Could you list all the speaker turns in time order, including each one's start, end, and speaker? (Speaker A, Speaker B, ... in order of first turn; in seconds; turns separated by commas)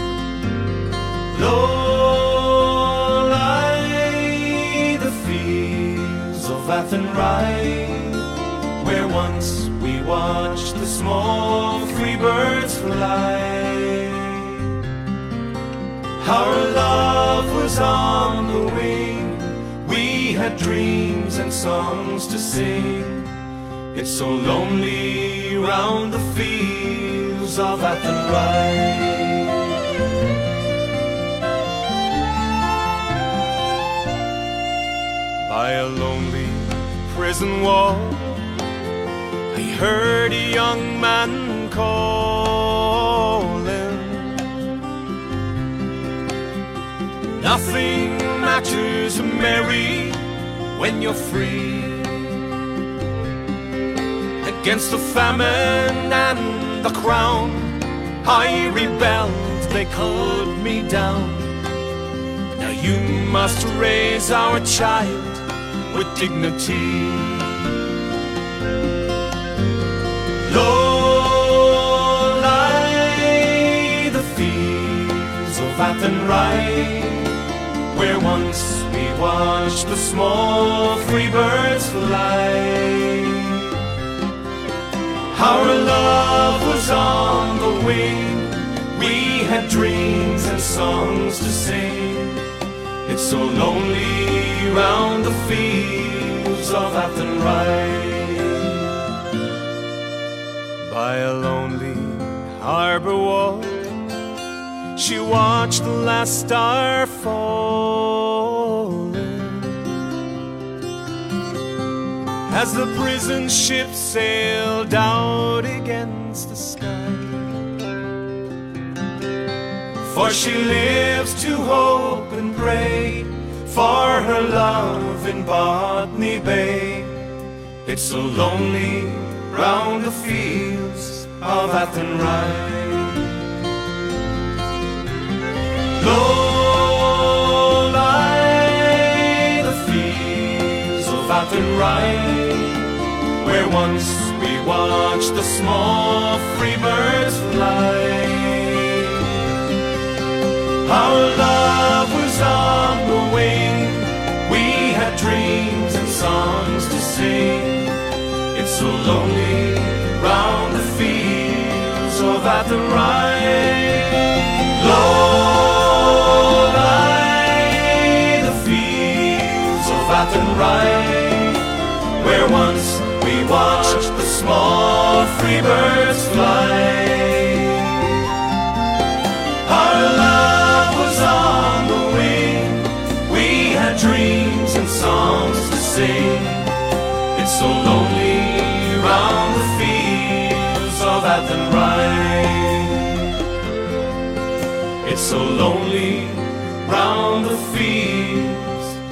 Speaker A: 1.3-8.3, Speaker A: 8.8-14.7, Speaker A: 16.2-23.3, Speaker A: 23.9-29.6, Speaker A: 35.4-38.5, Speaker A: 39.5-44.4, Speaker A: 47.4-50.2, Speaker A: 50.7-52.3, Speaker A: 54.4-61.6, Speaker A: 62.5-67.6, Speaker A: 70.4-77.4, Speaker A: 77.9-83.7, Speaker A: 85.3-92.4, Speaker A: 93.0-98.8, Speaker A: 100.8-104.0, Speaker A: 105.0-109.9, Speaker A: 112.5-117.6, Speaker A: 120.0-127.3, Speaker A: 127.8-133.3, Speaker A: 135.9-149.3, Speaker A: 150.8-158.0, Speaker A: 158.5-178.1, Speaker A: 179.7-186.8, Speaker A: 187.3-193.2, Speaker A: 195.0-199.0